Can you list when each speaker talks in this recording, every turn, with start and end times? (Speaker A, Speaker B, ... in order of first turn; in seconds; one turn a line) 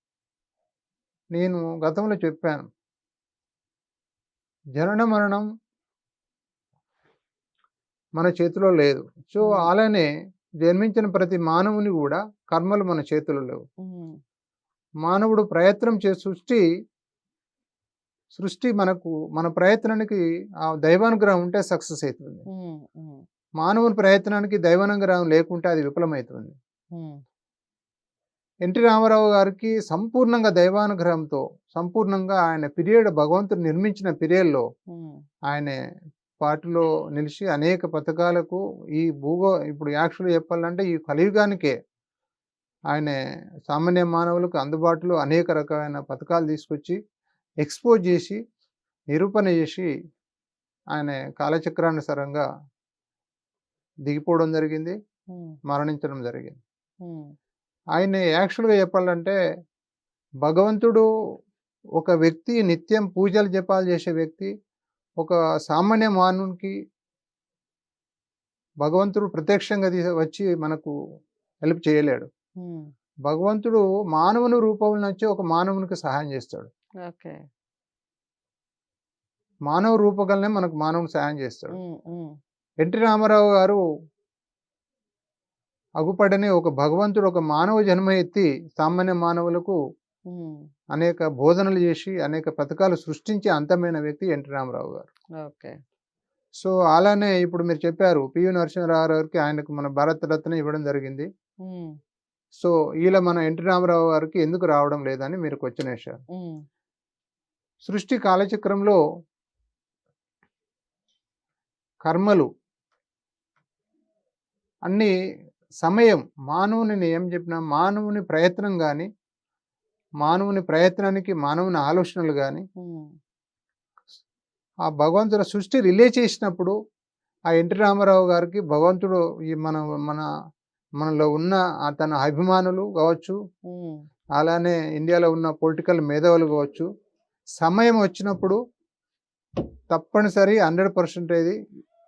Speaker A: 1.4-2.6
Speaker A: 4.8-5.5
Speaker A: 8.2-10.1
Speaker B: 9.4-9.7
Speaker A: 10.6-13.6
Speaker B: 13.8-14.2
Speaker A: 15.1-16.6
Speaker A: 18.3-20.2
Speaker A: 20.8-22.5
Speaker B: 22.5-23.2
Speaker A: 23.6-26.6
Speaker B: 26.9-27.2
Speaker A: 28.6-34.7
Speaker B: 34.9-35.2
Speaker A: 35.5-35.8
Speaker A: 36.4-41.7
Speaker A: 42.9-43.2
Speaker A: 43.7-47.0
Speaker A: 47.6-48.4
Speaker A: 49.1-49.9
Speaker A: 51.0-52.5
Speaker A: 54.1-55.0
Speaker A: 55.7-56.6
Speaker B: 57.0-57.3
Speaker A: 58.0-59.4
Speaker A: 60.5-61.0
Speaker A: 62.0-64.5
Speaker A: 65.2-66.7
Speaker A: 68.8-70.9
Speaker A: 71.7-72.3
Speaker B: 72.6-72.9
Speaker A: 73.3-76.7
Speaker B: 77.0-77.4
Speaker A: 79.7-81.8
Speaker B: 81.7-82.3
Speaker A: 82.8-83.8
Speaker A: 86.0-89.8
Speaker B: 90.3-90.7
Speaker A: 90.9-95.1
Speaker B: 95.4-95.8
Speaker A: 96.6-101.3
Speaker B: 101.6-102.0
Speaker A: 102.6-106.2
Speaker B: 106.3-106.6
Speaker A: 107.8-109.0
Speaker A: 112.1-112.5
Speaker A: 114.9-115.1
Speaker A: 115.8-119.1
Speaker A: 120.2-122.7
Speaker B: 122.8-123.1
Speaker A: 124.9-126.8
Speaker A: 127.5-130.3
Speaker A: 131.0-133.4
Speaker B: 133.7-134.0
Speaker A: 134.4-136.9
Speaker A: 137.6-138.6
Speaker A: 139.9-141.6